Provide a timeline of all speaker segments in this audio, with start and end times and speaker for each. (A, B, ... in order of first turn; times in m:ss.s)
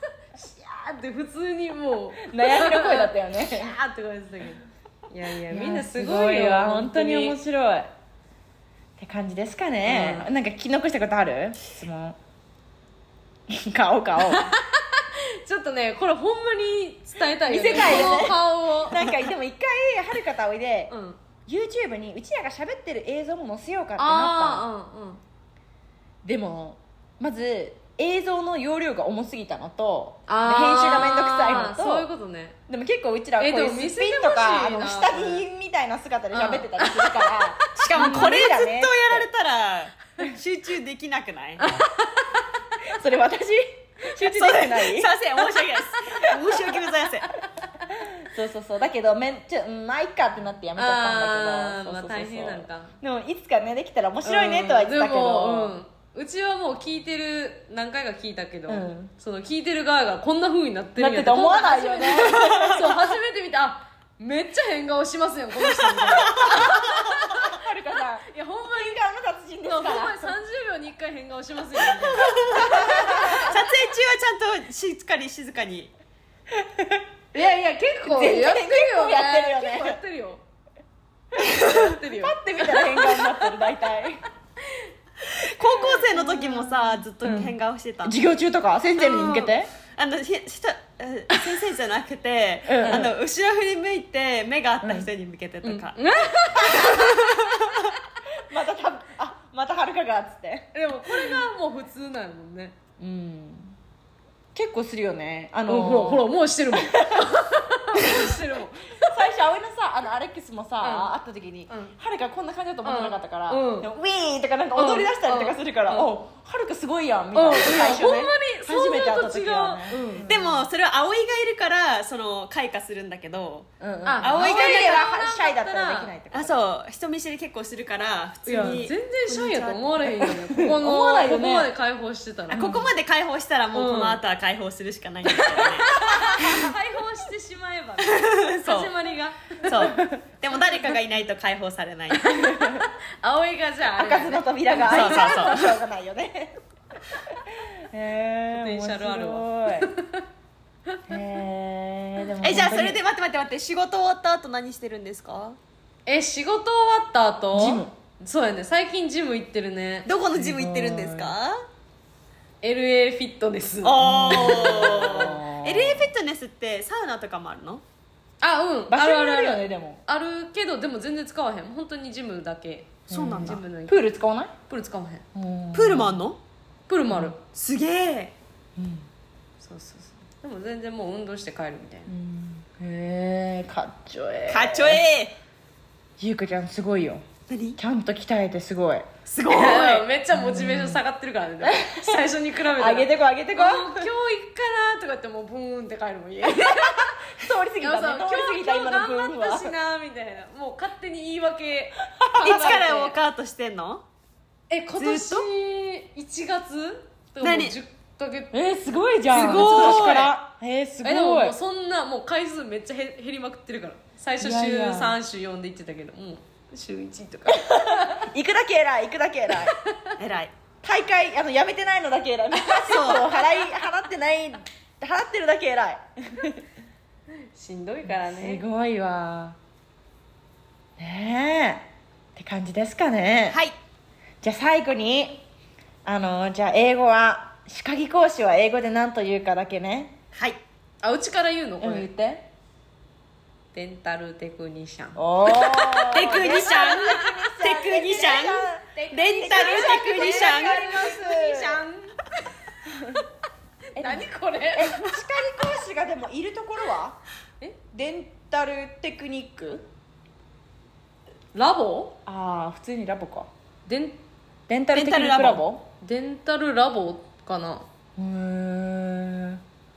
0:00.3-0:07.4 A
0:02.2-0:03.8 B
0:05.5-0:07.9 B
0:09.0-0:12.2 B
0:09.8-0:10.3 A
0:13.5-0:14.5 B
0:14.2-0:19.1 A
0:17.4-0:20.9 B
0:20.9-0:21.2 A
0:21.4-0:24.6 B
0:24.0-0:25.2 A
0:26.2-0:32.1 B
0:30.3-0:32.6 A
0:32.7-0:39.3 B
0:33.4-0:35.4 A
0:36.3-0:38.3 A
0:37.8-0:41.6 C
0:41.6-0:42.4 A
0:42.9-0:45.1 B
0:44.2-0:47.3 C
0:46.2-0:46.8 B
0:47.9-0:55.8 B
0:50.8-0:52.9 A
0:54.2-1:07.6 A
0:58.7-0:59.1 B
1:01.0-1:02.9 B
1:06.1-1:10.3 B
1:08.2-1:09.0 A
1:09.6-1:13.5 A
1:12.1-1:15.9 C
1:12.2-1:13.4 B
1:16.5-1:17.0 B
1:17.3-1:20.4 A
1:18.0-1:20.0 B
1:21.4-1:23.6 A
1:21.6-1:24.2 B
1:24.6-1:24.9 A
1:25.3-1:28.2 C
1:25.6-1:27.0 A
1:27.2-1:29.7 B
1:29.0-1:36.0 C
1:32.6-1:33.2 B
1:32.8-1:33.1 A
1:34.8-1:35.1 B
1:35.6-1:37.2 A
1:36.6-1:37.9 C
1:38.4-1:41.4 B
1:40.7-1:42.7 A
1:43.0-1:43.8 B
1:44.5-1:47.3 B
1:45.7-1:49.2 A
1:48.0-2:00.7 B
1:50.8-1:51.1 A
1:51.7-1:51.9 A
1:52.8-1:53.9 A
1:54.7-1:56.1 A
1:57.3-2:00.3 A
2:00.2-2:03.7 C
2:03.8-2:06.6 B
2:04.0-2:06.1 A
2:04.2-2:05.0 C
2:06.3-2:10.1 C
2:08.4-2:12.8 A
2:10.3-2:11.7 B
2:12.5-2:12.9 B
2:12.5-2:16.6 C
2:13.7-2:14.2 A
2:15.3-2:20.0 A
2:18.0-2:18.9 C
2:19.6-2:22.3 C
2:19.9-2:20.2 B
2:22.2-2:25.5 A
2:22.3-2:22.9 B
2:24.0-2:26.5 B
2:24.8-2:25.8 C
2:27.3-2:29.9 B
2:28.5-2:30.2 A
2:31.1-2:33.0 B
2:32.4-2:35.6 C
2:36.0-2:40.1 A
2:37.5-2:37.9 B
2:40.0-2:41.5 C
2:40.3-2:41.3 B
2:42.6-2:45.2 A
2:43.8-2:47.8 C
2:44.0-2:46.1 B
2:48.4-2:54.1 A
2:48.9-2:50.0 B
2:53.1-2:53.6 C
2:53.1-2:54.5 B
2:54.7-2:55.2 A
2:55.3-2:56.2 B
2:55.7-2:56.4 C
2:56.9-2:57.4 A
2:57.5-2:58.3 C
2:58.8-2:59.1 B
2:59.6-3:02.1 A
3:02.1-3:05.0 B
3:04.5-3:05.4 C
3:06.2-3:07.2 B
3:07.5-3:07.8 C
3:07.8-3:09.1 B
3:09.3-3:10.0 C
3:09.5-3:17.2 A
3:10.3-3:11.0 B
3:11.6-3:14.1 B
3:16.5-3:19.7 B
3:17.8-3:23.2 A
3:22.2-3:22.8 B
3:22.4-3:24.0 C
3:24.7-3:28.6 A
3:25.0-3:25.5 C
3:27.4-3:27.7 C
3:28.5-3:31.6 B
3:29.3-3:30.2 A
3:29.3-3:30.4 C
3:31.0-3:38.3 A
3:34.4-3:35.2 B
3:37.5-3:39.8 B
3:40.2-3:40.5 C
3:40.8-3:46.6 B
3:42.7-3:43.6 C
3:47.5-3:48.6 A
3:48.0-3:49.6 B
3:51.0-3:53.6 B
3:54.4-3:55.4 B
3:56.0-4:00.2 B
4:00.3-4:00.6 C
4:01.0-4:02.1 A
4:01.8-4:02.5 B
4:03.7-4:07.3 A
4:05.2-4:11.8 B
4:06.1-4:11.0 C
4:09.3-4:12.3 A
4:12.9-4:13.2 B
4:13.9-4:15.0 A
4:14.0-4:17.2 B
4:17.9-4:19.9 B
4:21.5-4:22.2 A
4:22.2-4:23.5 B
4:23.9-4:24.2 A
4:24.7-4:25.9 B
4:24.9-4:25.6 C
4:26.0-4:27.9 A
4:28.2-4:29.6 B